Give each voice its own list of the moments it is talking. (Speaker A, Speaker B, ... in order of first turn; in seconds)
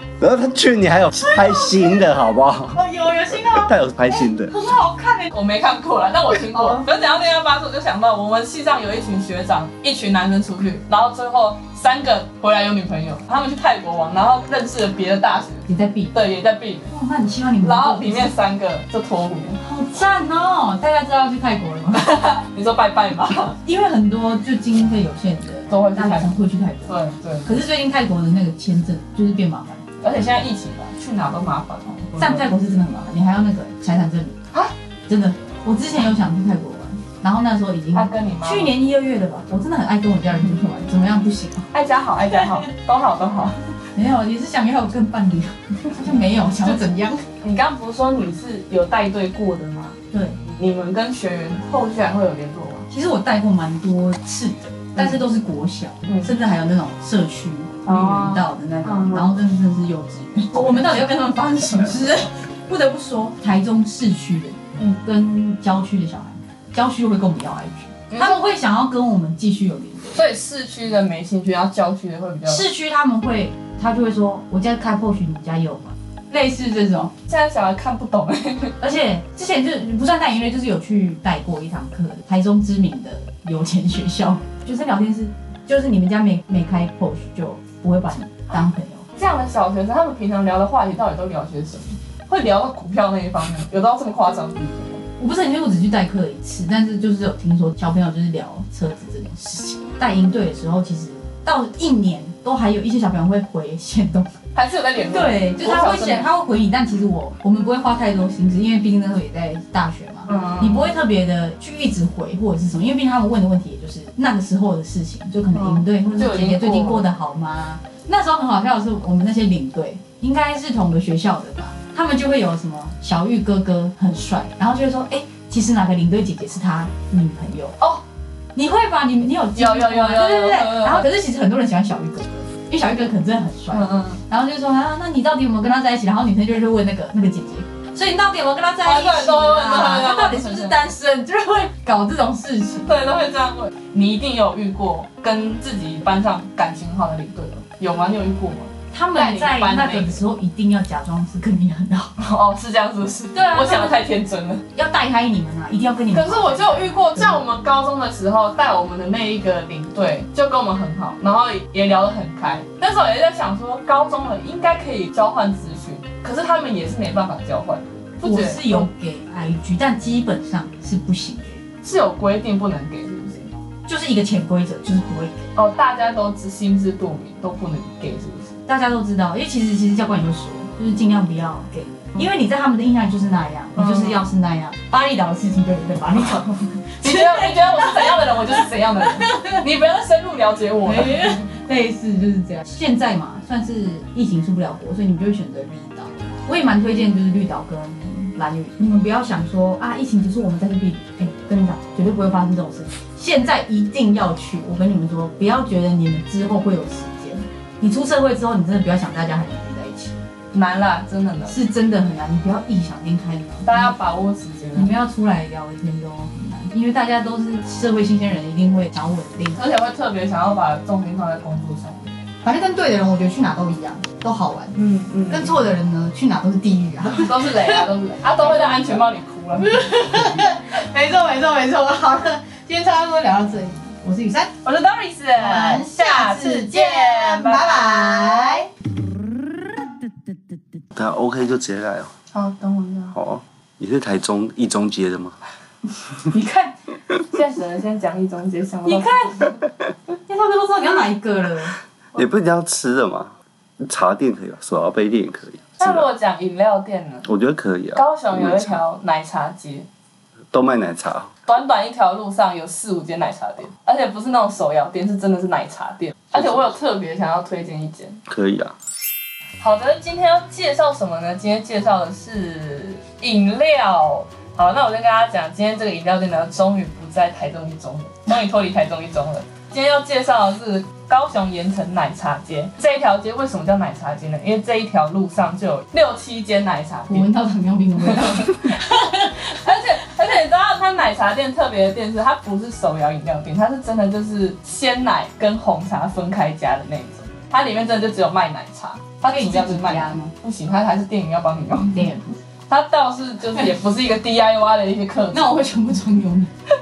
Speaker A: 0.2-2.8, 3.3-4.5, 240.9-242.1, 243.1-245.4, 252.1-256.1, 257.2-258.8, 260.5-261.3, 268.3-268.7
Speaker B: 1.1-2.0, 2.7-5.3, 6.5-6.9, 15.7-16.1, 16.9-18.3, 19.6-22.1, 23.6-29.8, 32.2-34.4, 35.1-41.7, 42.2-42.7, 43.9-47.2, 50.1-50.4, 52.9-70.2, 72.5-77.1, 78.8-89.1, 95.2-104.3, 105.0-127.8, 128.5-142.9, 148.9-152.1, 153.3-154.0, 154.7-157.4, 168.2-171.6, 173.8-175.5, 178.7-188.1, 189.2-189.6, 190.8-210.2, 211.5-213.9, 214.7-219.6, 222.4-224.8, 225.3-229.0, 229.6-234.6, 235.4-238.7, 246.3-246.8, 248.8-249.5, 250.3-251.7, 287.1-289.7, 299.2-300.3, 301.9-302.4, 305.3-306.5
Speaker C: 5.3-16.9, 17.6-19.6, 21.9-23.6, 25.7-27.6, 30.0-32.5, 37.9-38.7, 41.7-43.6, 47.4-52.9, 55.0-55.2, 57.9-59.3, 60.5-60.9, 68.1-68.4, 70.1-72.6, 77.3-78.8, 89.1-95.0, 104.5-106.3, 110.3-110.9, 115.5-117.1, 129.5-131.1, 133.7-134.2, 138.8-140.8, 142.8-150.2, 152.2-154.6, 156.1-168.9, 171.8-173.5, 175.5-178.6, 183.8-184.2, 187.0-191.5, 210.5-211.6, 213.6-214.9, 219.5-222.1, 224.7-225.6, 227.1-229.8, 234.6-237.6, 242.3-243.1, 247.3-249.5, 255.8-257.3, 257.9-259.9, 261.4-268.2, 269.6-287.3, 288.0-288.8, 289.4-302.0, 302.7-305.6